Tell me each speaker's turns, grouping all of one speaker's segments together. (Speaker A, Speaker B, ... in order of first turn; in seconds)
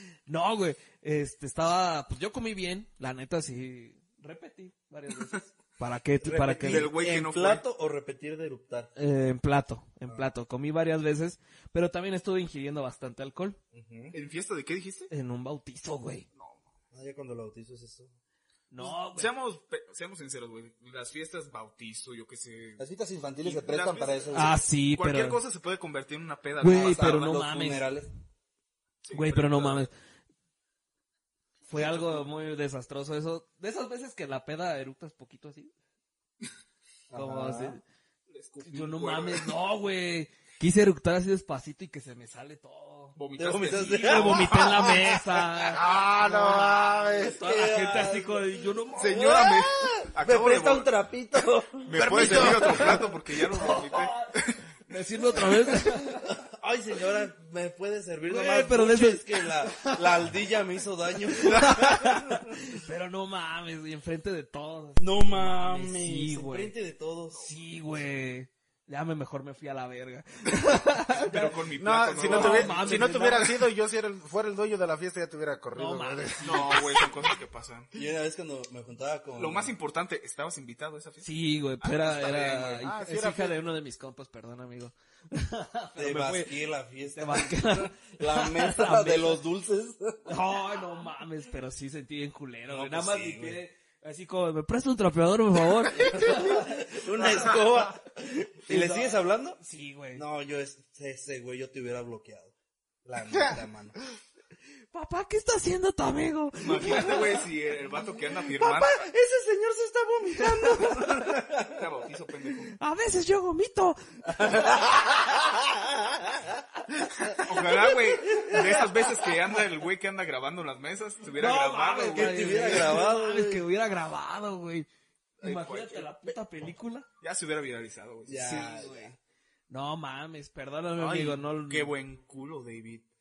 Speaker A: 0.3-6.9, 8.9-13.6, 15.1-16.2, 18.7-19.3, 24.3-25.4, 26.6-27.9, 29.1-29.9, 31.7-35.7, 37.1-37.8, 38.6-45.8, 46.4-49.2, 52.3-54.3, 54.9-56.2, 58.2-60.0, 61.4-66.7, 67.3-71.5, 72.2-73.5, 75.7-76.9, 81.2-89.4, 90.2-100.2, 104.9-107.4, 110.3-111.4, 112.8-114.5, 121.3-124.9, 125.4-127.1, 128.3-129.2, 129.7-131.9
Speaker B: 6.2-8.9, 13.7-14.2, 16.9-18.1, 22.8-24.6, 26.6-28.1, 29.4-29.8, 31.7-32.2, 37.1-37.8, 43.4-45.2, 46.2-53.0, 55.5-62.8, 65.0-67.5, 77.9-79.7, 86.0-90.3, 92.7-93.6, 95.9-99.6, 100.1-104.0, 108.6-111.8, 114.3-119.2, 122.1-123.6, 128.3-129.2
Speaker C: 6.6-7.7, 14.1-15.1, 16.3-16.7, 18.8-22.8, 23.4-27.4, 29.0-29.5, 38.3-39.5, 43.1-44.6, 49.0-50.9, 51.8-54.7, 61.5-61.8, 71.1-73.5, 76.4-77.9, 79.3-82.9, 97.2-98.0, 106.6-109.0, 111.6-112.8, 117.4-122.9, 125.4-126.1, 127.2-128.8, 131.0-133.0
Speaker D: 45.6-47.4, 52.0-52.8, 71.8-76.7, 82.8-83.6